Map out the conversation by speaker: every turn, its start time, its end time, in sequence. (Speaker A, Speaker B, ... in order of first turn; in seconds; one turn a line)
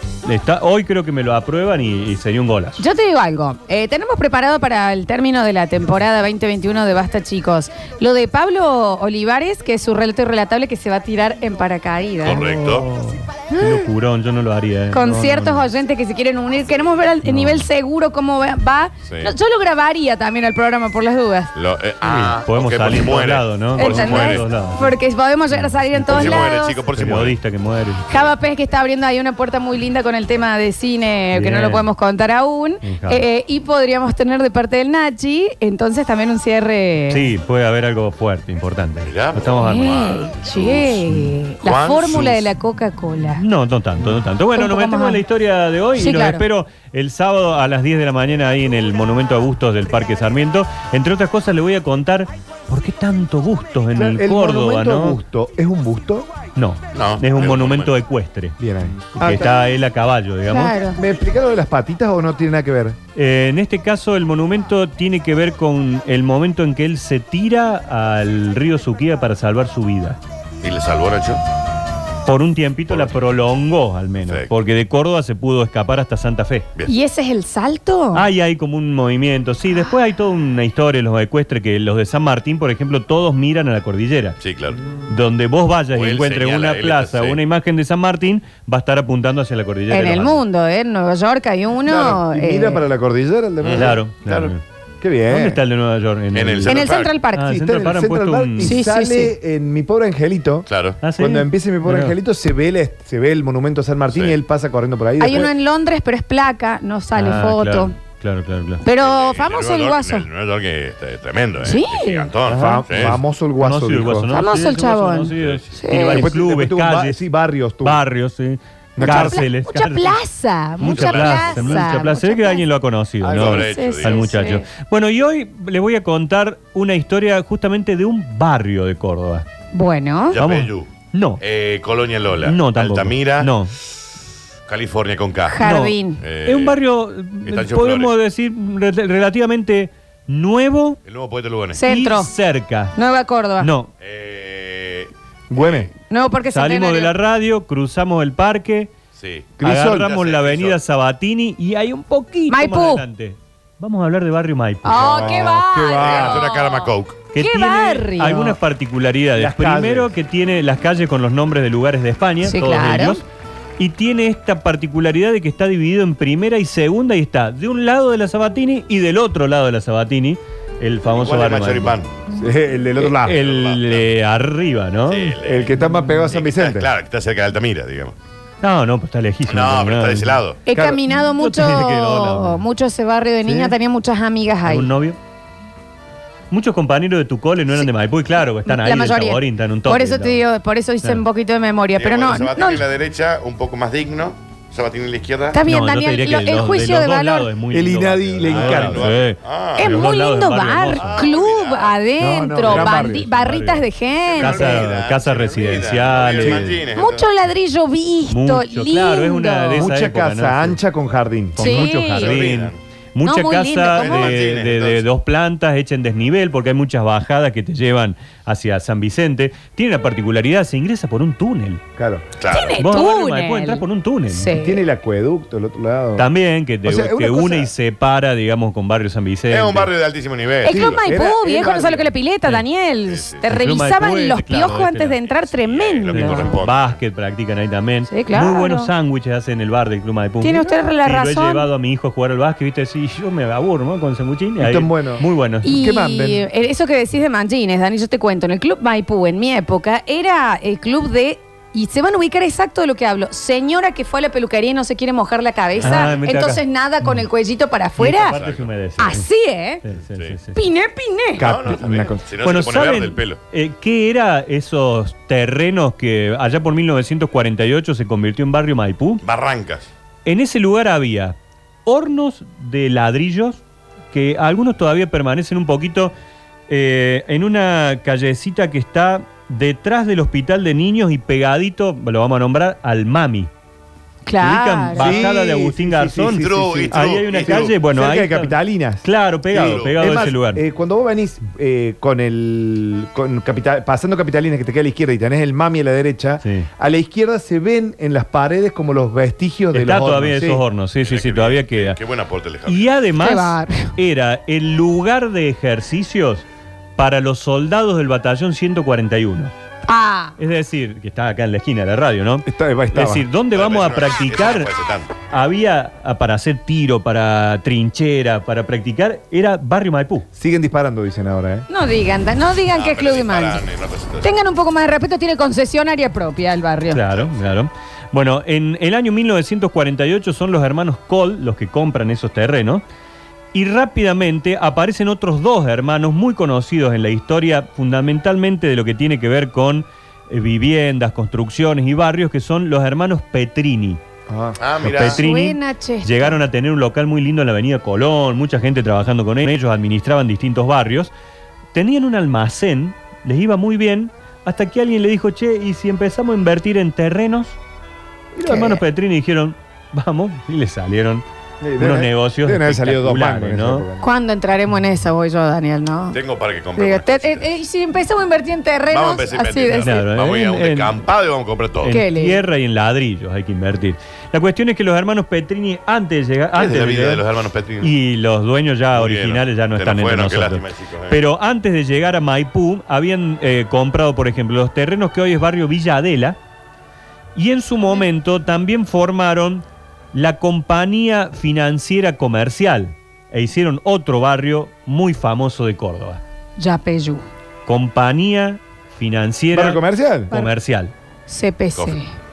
Speaker A: 0.3-2.8
Speaker B: 2.8-12.5
Speaker C: 12.2-12.9
Speaker A: 12.4-15.7
Speaker B: 13.5-13.8
Speaker B: 14.9-21.5
Speaker A: 17.2-17.6
Speaker C: 19.1-19.3
Speaker C: 21.6-24.5
Speaker A: 22.0-24.9
Speaker B: 23.8-26.8
Speaker A: 25.5-28.1
Speaker C: 26.1-27.4
Speaker B: 28.1-37.3
Speaker A: 31.3-31.9
Speaker A: 32.8-33.2
Speaker A: 37.1-39.9
Speaker C: 39.0-41.1
Speaker B: 39.6-43.4
Speaker C: 41.6-42.5
Speaker A: 43.4-55.2
Speaker B: 44.5-45.2
Speaker B: 46.0-46.5
Speaker D: 54.0-56.3
Speaker A: 56.5-58.6
Speaker C: 56.9-58.0
Speaker D: 58.6-59.5
Speaker A: 59.1-60.8
Speaker B: 60.5-61.0
Speaker D: 61.0-63.0
Speaker A: 63.2-70.2
Speaker C: 70.6-71.4
Speaker A: 72.3-76.7
Speaker C: 72.9-73.2
Speaker C: 74.3-74.5
Speaker B: 76.9-78.3
Speaker A: 78.1-84.4
Speaker C: 84.4-84.8
Speaker A: 85.1-90.4
Speaker C: 85.9-87.4
Speaker B: 89.9-92.8
Speaker D: 91.9-94.0
Speaker C: 93.6-94.5
Speaker A: 93.8-94.6
Speaker D: 95.0-95.6
Speaker A: 95.3-96.7
Speaker C: 96.3-97.2
Speaker B: 96.7-97.5
Speaker A: 97.3-98.8
Speaker D: 97.5-105.5
Speaker B: 98.6-99.3
Speaker C: 100.7-101.0
Speaker A: 101.0-102.2
Speaker C: 104.1-104.4
Speaker B: 105.2-108.0
Speaker A: 107.2-108.8
Speaker B: 108.8-110.3
Speaker C: 109.0-113.2
Speaker B: 111.6-112.3
Speaker D: 112.5-114.3
Speaker A: 113.0-117.2
Speaker B: 114.3-116.3
Speaker C: 115.4-115.9
Speaker D: 116.1-118.0
Speaker A: 117.8-120.2
Speaker D: 119.0-119.4
Speaker B: 119.0-122.6
Speaker A: 120.8-129.4
Speaker C: 120.8-121.9
Speaker C: 123.2-124.4
Speaker D: 123.2-123.5
Speaker B: 123.4-124.6
Speaker B: 129.7-130.4
Speaker C: 130.3-133.6
Speaker A: 130.4-131.4
Speaker A: 132.4-133.7
Speaker C: 134.7-135.7
Speaker B: 135.5-136.2
Speaker A: 135.6-141.0
Speaker C: 136.2-136.8
Speaker C: 137.4-138.1
Speaker C: 141.1-141.8
Speaker B: 141.7-142.3
Speaker A: 141.8-142.9
Speaker B: 142.9-143.7
Speaker A: 143.6-143.9
Speaker C: 144.0-145.9
Speaker D: 145.5-145.9
Speaker B: 146.1-147.1
Speaker A: 146.5-148.9
Speaker C: 149.1-150.8
Speaker D: 149.6-150.1
Speaker A: 149.6-155.6
Speaker B: 152.5-153.0
Speaker B: 154.8-158.6
Speaker D: 155.2-156.4
Speaker C: 155.9-157.2
Speaker A: 157.3-163.2
Speaker D: 159.4-160.1
Speaker B: 162.4-163.2
Speaker A: 163.8-172.0
Speaker C: 171.1-172.1
Speaker D: 172.4-173.3
Speaker A: 173.0-175.3
Speaker C: 173.0-174.1
Speaker C: 175.1-175.8
Speaker D: 175.4-176.9
Speaker C: 176.3-178.2
Speaker A: 178.6-180.4
Speaker C: 179.5-180.6
Speaker B: 180.7-184.9
Speaker D: 180.7-181.0
Speaker A: 181.4-182.6
Speaker A: 184.7-185.2
Speaker A: 186.5-190.4
Speaker B: 188.6-192.8
Speaker C: 192.0-195.6
Speaker B: 195.5-197.5
Speaker A: 195.6-201.3
Speaker D: 197.7-199.2
Speaker C: 198.4-200.1
Speaker B: 199.8-204.9
Speaker C: 200.9-202.0
Speaker D: 202.2-203.3
Speaker A: 202.6-203.9
Speaker C: 204.2-207.3
Speaker A: 204.4-206.6
Speaker D: 206.4-206.8
Speaker B: 206.9-209.9
Speaker A: 208.3-210.8
Speaker D: 209.8-211.7
Speaker A: 211.6-221.8
Speaker B: 211.6-212.5
Speaker C: 211.9-212.8
Speaker B: 213.2-214.4
Speaker C: 213.9-215.1
Speaker D: 222.0-222.3
Speaker C: 222.4-222.8
Speaker B: 222.5-224.8
Speaker A: 222.8-224.6
Speaker D: 224.5-226.3
Speaker A: 226.2-229.9
Speaker D: 226.8-227.7
Speaker C: 229.5-231.1
Speaker B: 230.6-236.6
Speaker D: 230.7-232.1
Speaker C: 233.1-233.5
Speaker A: 233.5-235.2
Speaker C: 235.2-237.0
Speaker A: 236.1-245.8
Speaker B: 238.1-238.9
Speaker B: 240.4-241.7
Speaker D: 244.6-246.4
Speaker B: 245.6-258.4
Speaker C: 255.7-256.2
Speaker A: 255.8-257.1
Speaker A: 258.0-259.3
Speaker C: 258.2-258.7
Speaker B: 259.0-259.8
Speaker A: 259.8-260.6
Speaker C: 259.9-260.4
Speaker B: 260.6-261.5
Speaker D: 261.4-262.3
Speaker C: 261.4-263.4
Speaker A: 262.4-269.2
Speaker C: 269.2-269.9
Speaker A: 270.3-273.6
Speaker A: 274.1-276.1
Speaker A: 276.7-283.5
Speaker B: 284.3-285.2
Speaker A: 284.4-290.6
Speaker D: 284.9-289.1
Speaker C: 286.3-287.8
Speaker C: 289.5-290.3
Speaker D: 289.6-300.6
Speaker A: 296.4-296.7
Speaker A: 299.7-302.0
Speaker C: 301.0-303.1
Speaker A: 302.7-306.4
Speaker B: 303.2-303.9
Speaker A: 307.0-309.5
Speaker B: 309.9-310.4
Speaker A: 310.4-314.7
Speaker D: 312.5-313.3
Speaker C: 313.5-315.2
Speaker A: 315.3-320.3
Speaker D: 320.4-321.7
Speaker B: 321.7-323.6
Speaker C: 322.7-324.4
Speaker B: 324.2-327.0
Speaker A: 326.9-332.8
Speaker C: 327.1-327.4
Speaker A: 333.5-344.0
Speaker D: 344.3-345.1
Speaker C: 344.6-345.2
Speaker A: 345.0-351.1
Speaker B: 345.0-346.4
Speaker A: 351.7-357.6
Speaker B: 358.4-358.8
Speaker A: 358.4-361.2
Speaker D: 361.6-364.0
Speaker A: 361.8-363.9
Speaker B: 364.0-366.2
Speaker C: 366.1-367.5
Speaker B: 366.8-370.1
Speaker C: 368.9-371.9
Speaker A: 369.8-371.0
Speaker A: 371.8-377.2
Speaker B: 371.9-372.4
Speaker C: 376.5-377.9
Speaker A: 377.8-386.4
Speaker C: 378.9-381.2
Speaker A: 387.4-396.2
Speaker B: 396.6-397.2
Speaker A: 397.7-400.9
Speaker D: 399.5-400.3
Speaker B: 401.3-402.1